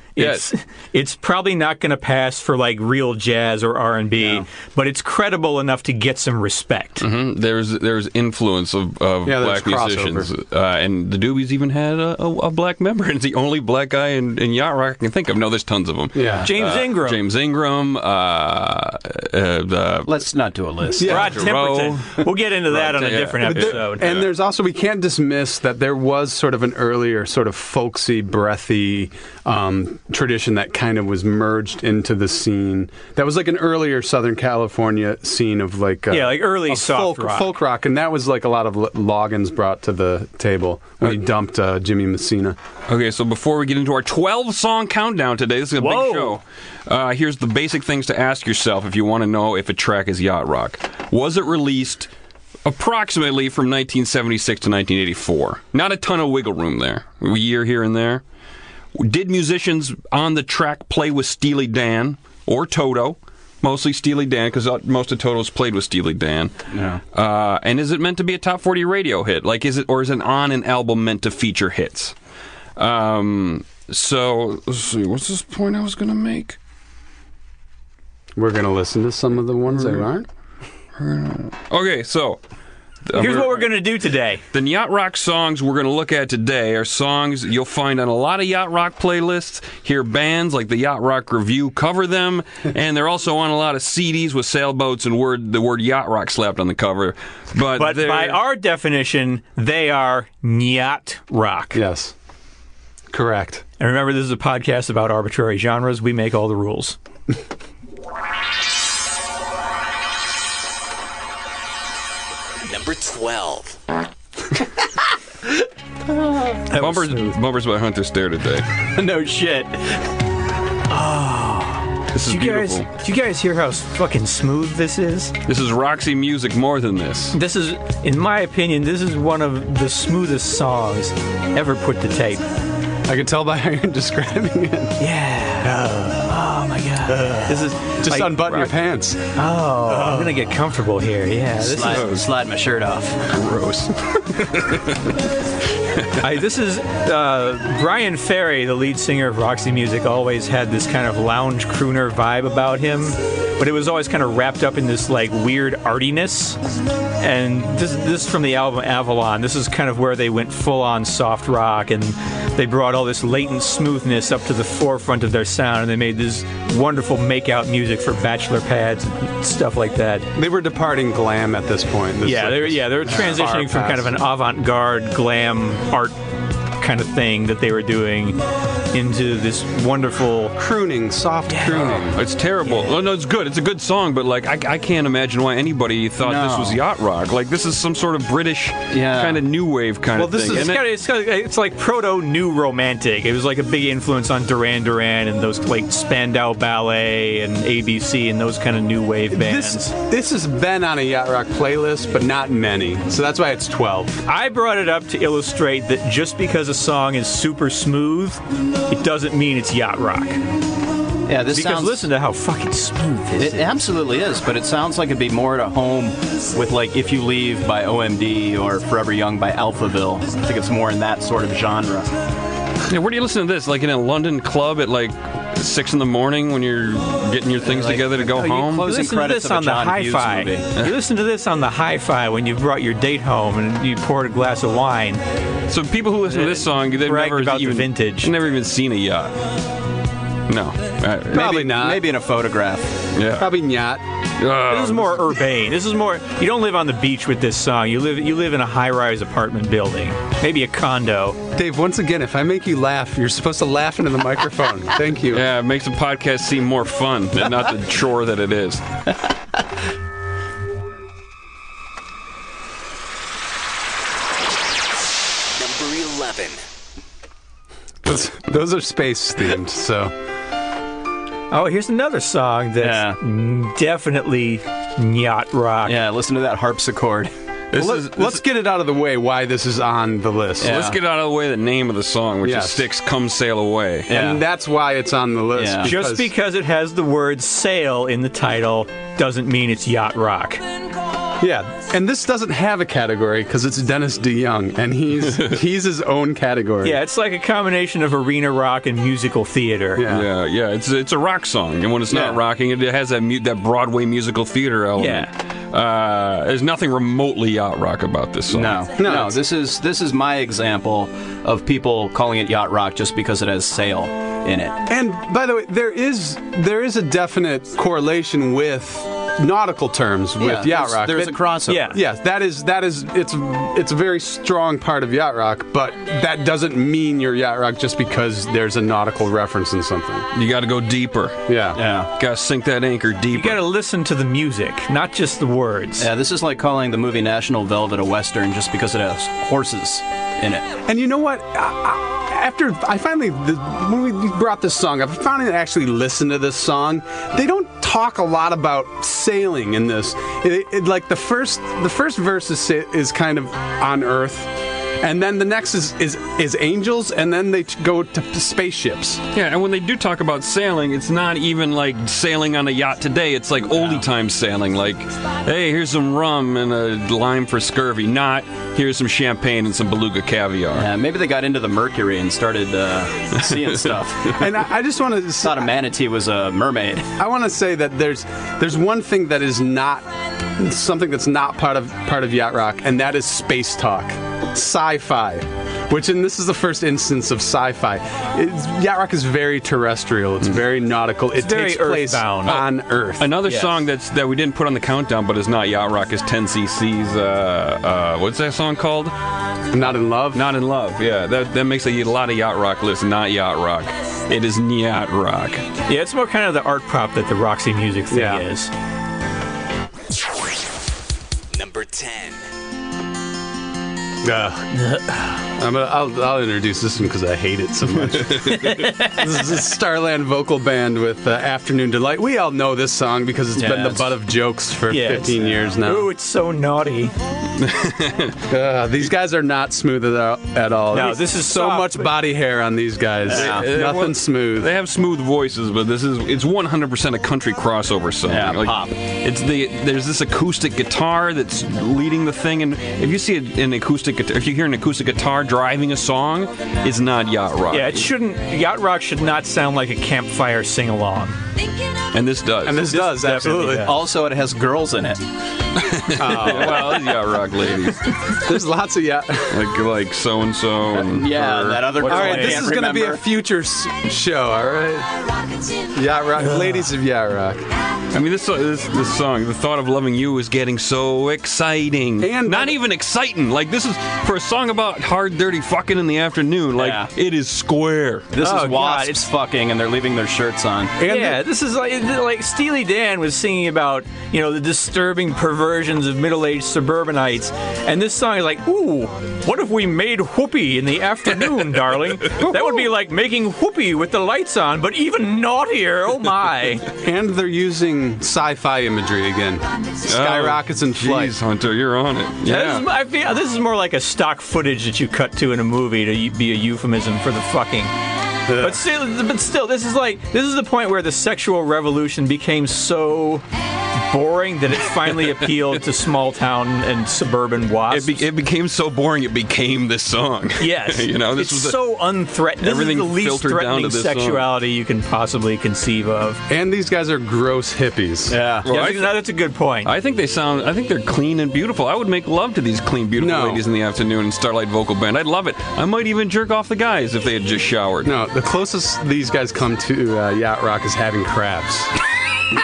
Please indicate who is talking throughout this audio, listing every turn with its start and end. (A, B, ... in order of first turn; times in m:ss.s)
0:00.2-0:07.0 A
0:00.2-0:00.4 B
0:07.0-0:20.2 B
0:09.2-0:10.3 C
0:16.1-0:16.5 C
0:16.4-0:17.2 A
0:20.0-0:21.1 D
0:20.9-0:24.3 B
0:21.0-0:21.3 C
0:21.0-0:24.0 A
0:23.4-0:42.6 C
0:36.1-0:37.5 A
0:42.9-0:52.1 B
0:45.8-0:46.4 A
0:52.6-0:58.2 B
0:58.9-1:06.5 B
1:06.7-1:07.0 D
1:07.1-1:12.1 B
1:12.8-1:16.6 B
1:18.4-1:20.3 C
1:21.0-1:22.4 B
1:23.0-1:23.8 B
1:23.1-1:24.4 A
1:24.5-1:38.4 B
1:37.8-1:41.8 A
1:41.7-1:42.1 C
1:43.1-1:43.6 C
1:43.8-1:47.0 A
1:52.6-1:53.8 E
1:56.7-1:57.4 A
1:56.7-1:58.7 B
1:58.9-2:00.0 D
2:00.9-2:05.4 A
2:02.1-2:02.9 B
2:05.4-2:07.4 B
2:07.3-2:12.4 A
2:13.0-2:15.0 C
2:15.0-2:18.8 A
2:17.3-2:19.2 C
2:19.3-2:22.0 A
2:19.9-2:20.3 D
2:21.6-2:23.2 D
2:21.8-2:22.2 B
2:23.3-2:25.2 B
2:25.9-2:26.2 B
2:26.2-2:36.6 A
2:37.2-2:50.3 A
2:50.4-2:54.2 C
2:52.2-2:56.2 A
2:56.8-2:58.4 A
2:58.9-3:00.6 A
3:00.6-3:02.2 C
3:01.5-3:01.9 A
3:01.6-3:10.8 B
3:06.2-3:06.8 D
3:08.9-3:09.4 D
3:10.2-3:10.8 C
3:10.4-3:19.9 A
3:19.3-3:24.2 C
3:24.2-3:30.4 A
3:31.2-3:32.0 D
3:31.5-3:33.8 A
3:33.4-3:42.1 D
3:42.9-3:48.9 B
3:47.6-3:50.7 D
3:48.8-3:55.2 A
3:55.7-3:59.4 B
3:56.3-3:58.3 A
4:00.5-4:01.6 B
4:01.3-4:02.0 C
4:01.3-4:03.0 D
4:03.1-4:03.5 B
4:03.4-4:04.0 C
4:04.4-4:05.3 B
4:04.7-4:11.4 A
4:11.5-4:15.4 C
4:15.3-4:18.8 B
4:25.5-4:26.6 E
4:28.0-4:30.1 C
4:31.5-4:36.0 A
4:32.8-4:33.2 D
4:35.8-4:37.3 D
4:37.7-4:38.4 B
4:37.7-4:40.8 C
4:40.6-4:41.0 D
4:40.6-4:44.1 B
4:42.4-4:42.9 C
4:44.1-4:44.4 D
4:44.1-4:46.3 C
4:45.6-4:46.0 D
4:45.8-4:50.6 A
4:51.4-4:57.0 C
4:56.8-5:00.0 A
4:59.9-5:00.3 C
5:00.1-5:08.8 B
5:02.1-5:02.4 D
5:05.0-5:05.3 A
5:08.5-5:14.8 D
5:09.0-5:09.4 C
5:14.9-5:21.4 C
5:20.4-5:22.0 D
5:21.7-5:22.0 A
5:21.9-5:30.3 C
5:30.3-5:31.6 B
5:31.5-5:31.8 C
5:31.8-5:32.1 D
5:32.1-5:33.6 B
5:33.3-5:36.1 A
5:36.0-5:40.7 D
5:40.9-5:59.2 C
5:59.3-6:10.9 B
6:10.8-6:14.4 D
6:14.4-6:15.7 C
6:15.4-6:17.1 D
6:17.2-6:33.3 C
6:31.4-6:32.6 A
6:33.2-6:39.1 B
6:33.4-6:33.8 A
6:39.7-6:40.4 C
6:40.3-6:45.6 B
6:45.9-6:48.7 A
6:48.1-6:48.4 C
6:51.5-6:52.4 E
6:54.2-6:54.8 C
6:54.8-6:55.3 A
6:55.5-7:06.1 C
6:58.1-6:58.8 B
6:58.5-6:59.2 A
7:03.6-7:04.1 D
7:04.9-7:07.1 A
7:07.6-7:08.4 B
7:08.5-7:14.7 C
7:10.9-7:12.1 A
7:13.3-7:13.7 D
7:13.3-7:28.0 B
7:18.3-7:19.0 D
7:27.7-7:31.4 A
7:32.1-7:32.9 B
7:32.6-7:34.0 C
7:32.9-7:33.9 A
7:33.8-7:35.2 D
7:35.8-7:38.2 B
7:36.1-7:37.1 C
7:38.3-7:39.7 C
7:39.5-7:42.1 B
7:40.9-7:43.2 D
7:42.0-7:42.7 A
7:42.0-7:45.1 C
7:45.9-7:47.6 C
7:48.1-7:58.3 B
7:52.2-7:52.8 C
7:56.8-7:57.1 D
7:58.3-8:01.0 D
7:58.4-7:59.2 A
8:01.0-8:01.4 C
8:01.0-8:16.9 A
8:17.0-8:21.3 C
8:20.1-8:22.8 B
8:22.4-8:27.9 A
8:28.5-8:28.8 C
8:28.5-8:33.4 A
8:34.1-8:38.2 A
8:37.9-8:41.8 B
8:40.6-8:46.4 A
8:42.6-8:44.5 B
8:46.5-8:48.4 C
8:48.3-8:48.7 D
8:48.6-8:49.2 B
8:48.6-8:49.9 A
8:49.8-8:58.2 B
8:53.2-8:53.6 C
8:58.0-9:01.9 C